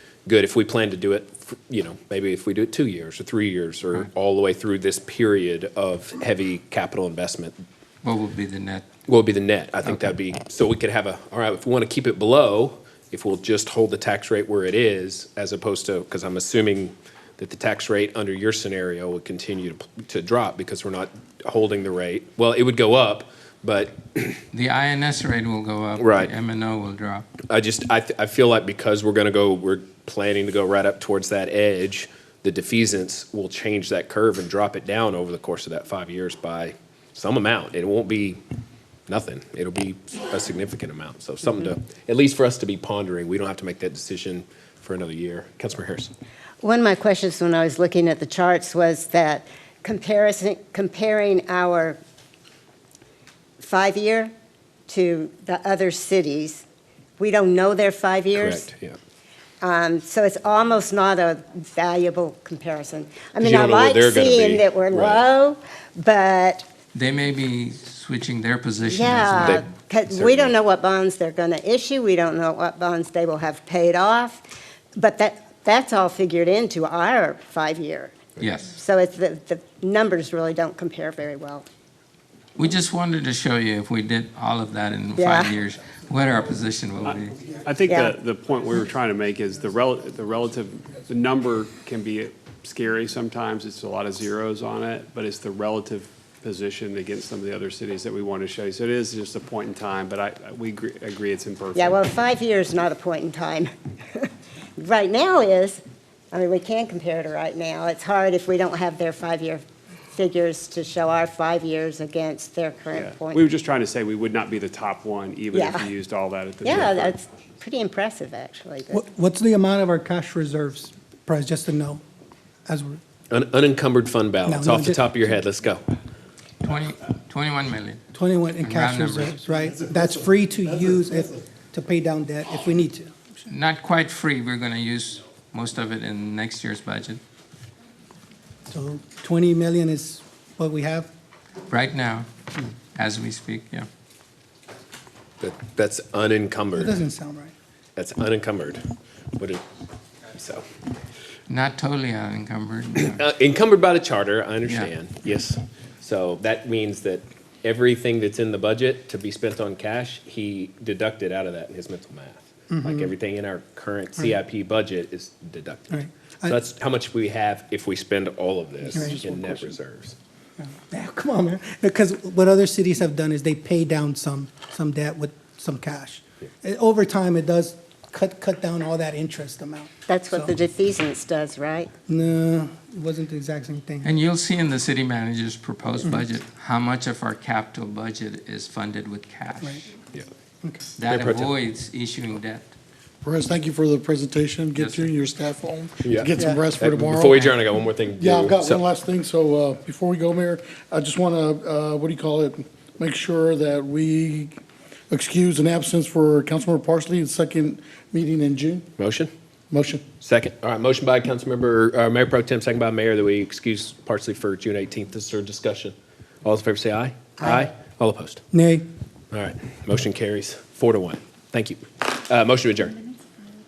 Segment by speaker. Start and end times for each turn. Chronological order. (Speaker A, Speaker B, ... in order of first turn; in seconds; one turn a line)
Speaker A: 0.3-7.6
Speaker B: 8.0-8.9
Speaker A: 9.1-24.4
Speaker B: 24.5-27.3
Speaker A: 26.0-26.3
Speaker A: 27.5-38.4
Speaker A: 39.1-46.1
Speaker C: 46.6-52.0
Speaker C: 53.6-54.3
Speaker C: 54.9-56.6
Speaker C: 57.2-58.7
Speaker A: 58.4-59.0
Speaker C: 59.6-66.7
Speaker A: 63.4-65.2
Speaker B: 66.9-69.6
Speaker C: 68.8-74.4
Speaker A: 69.4-70.5
Speaker C: 75.0-81.7
Speaker B: 78.4-78.7
Speaker B: 82.6-87.4
Speaker C: 85.2-85.5
Speaker D: 87.0-102.0
Speaker C: 87.8-88.2
Speaker C: 101.8-105.8
Speaker C: 106.3-113.5
Speaker D: 112.9-117.2
Speaker C: 115.5-115.9
Speaker C: 116.6-119.0
Speaker E: 118.9-122.0
Speaker E: 122.7-123.0
Speaker A: 123.3-125.8
Speaker E: 124.5-125.3
Speaker B: 126.6-128.0
Speaker E: 128.1-133.3
Speaker B: 128.6-129.4
Speaker B: 133.5-137.2
Speaker E: 138.7-141.1
Speaker B: 141.7-142.3
Speaker B: 142.9-143.9
Speaker A: 145.4-147.0
Speaker E: 146.8-147.5
Speaker A: 148.0-148.8
Speaker A: 149.4-149.6
Speaker A: 150.3-150.7
Speaker B: 151.5-153.2
Speaker A: 153.1-170.2
Speaker E: 162.7-163.1
Speaker E: 165.9-166.6
Speaker E: 168.9-169.3
Speaker E: 170.6-180.6
Speaker C: 180.1-181.9
Speaker E: 182.1-184.1
Speaker B: 184.0-189.9
Speaker B: 191.0-192.8
Speaker A: 191.1-191.5
Speaker F: 193.2-197.4
Speaker B: 194.8-195.1
Speaker A: 196.0-198.8
Speaker E: 196.4-196.6
Speaker F: 198.2-208.9
Speaker A: 209.0-209.3
Speaker F: 209.7-210.0
Speaker A: 210.2-218.4
Speaker E: 218.5-218.8
Speaker A: 219.3-223.0